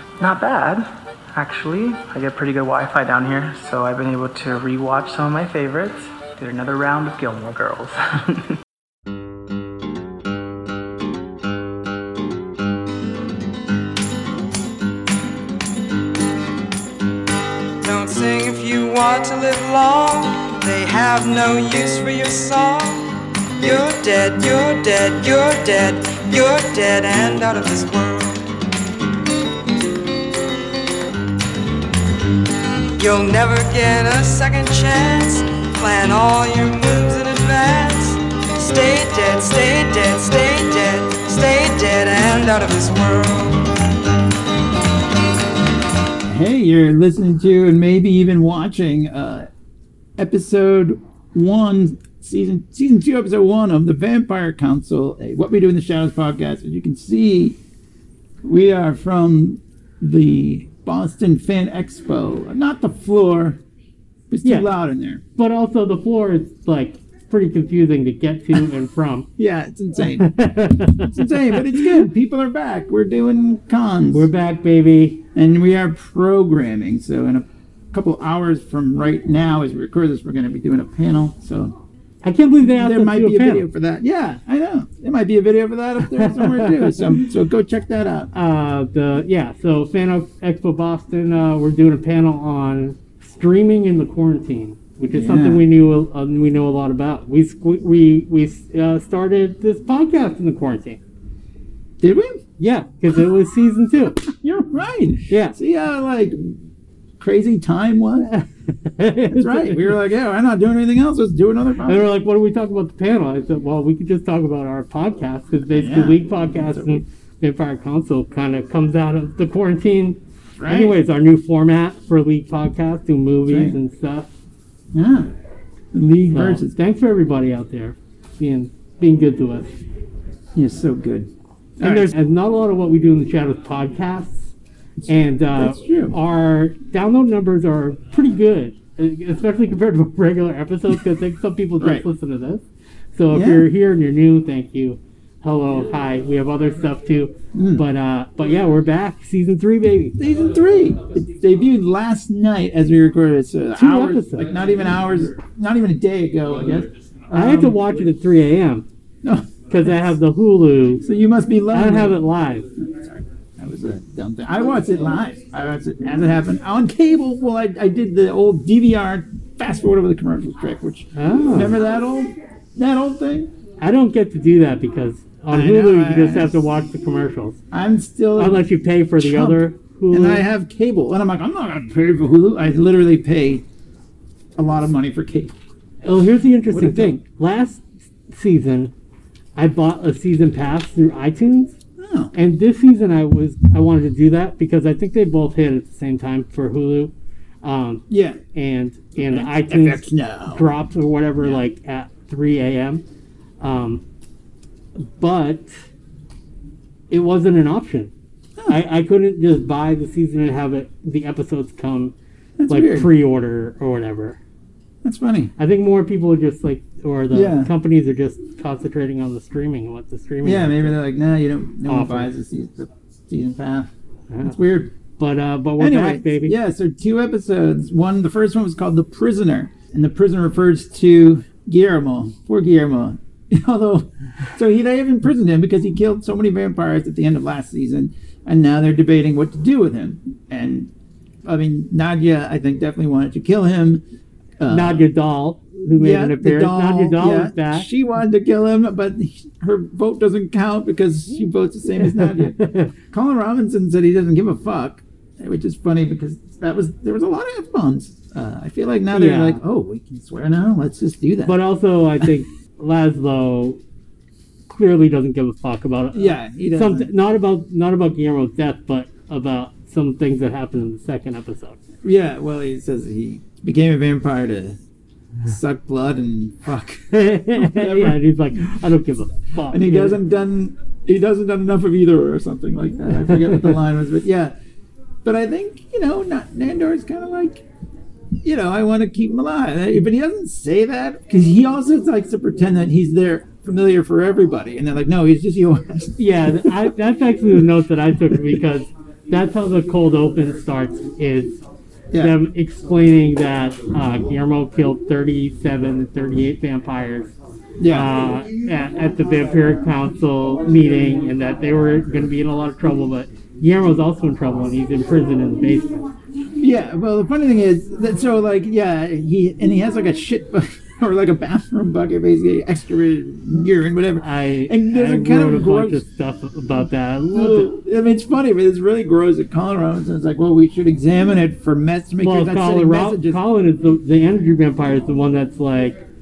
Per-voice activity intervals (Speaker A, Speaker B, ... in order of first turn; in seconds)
Speaker A: 0.2-8.5
Speaker B: 17.8-28.4, 33.0-43.7
Speaker C: 46.3-49.5, 50.2-57.6, 58.4-63.6, 64.3-65.2, 69.4-70.3, 71.0-74.3, 75.3-81.8, 82.6-88.3, 95.1-95.6, 102.0-102.4, 104.2-106.6, 107.2-108.3, 109.3-112.1, 115.7-117.0, 120.6-121.0, 123.5-123.8, 124.9-125.3, 125.9-126.7, 130.5-132.1, 135.0-136.2, 141.8-142.0, 143.3-143.7, 147.5-147.8, 150.2-157.8, 159.2-160.2, 161.0-162.2, 162.8-173.5, 175.5-176.6, 177.7-178.6, 179.2-183.7, 184.6-185.5, 186.7-187.2, 192.0-192.3, 198.1-198.4, 199.2-200.7, 212.6-213.1, 215.0-215.5, 217.3-217.7, 220.4-223.9, 224.4-224.9, 225.8-240.9, 241.4-244.0, 244.6-245.1, 245.9-261.6, 266.1-267.1, 272.0-274.8, 275.4-278.2, 279.7-284.5, 285.2-287.6, 288.4-296.9, 298.2-298.6, 302.1-302.4, 307.8-308.1, 316.6-326.0, 327.3-333.4
Speaker D: 64.4-64.7, 65.3-69.3, 70.0-72.0, 74.1-75.2, 82.2-83.7, 86.0-87.2, 88.3-101.0, 102.6-104.2, 105.3-105.6, 108.3-109.9, 111.8-124.3, 126.3-129.7, 131.8-134.5, 135.1-150.2, 153.8-154.5, 157.3-158.8, 159.7-161.0, 161.7-162.7, 171.1-171.8, 173.8-177.6, 178.3-180.4, 186.0-188.9, 189.6-191.8, 192.3-203.0, 203.6-204.0, 204.9-205.7, 207.1-208.1, 208.7-212.1, 212.7-214.4, 215.6-221.0, 221.8-222.3, 224.3-224.6, 225.2-226.5, 244.7-247.9, 252.0-252.9, 259.1-259.6, 261.4-263.8, 264.7-271.8, 277.1-280.2, 283.1-283.8, 296.2-301.6, 302.2-307.3, 307.9-316.1, 324.2-327.7, 332.2-336.0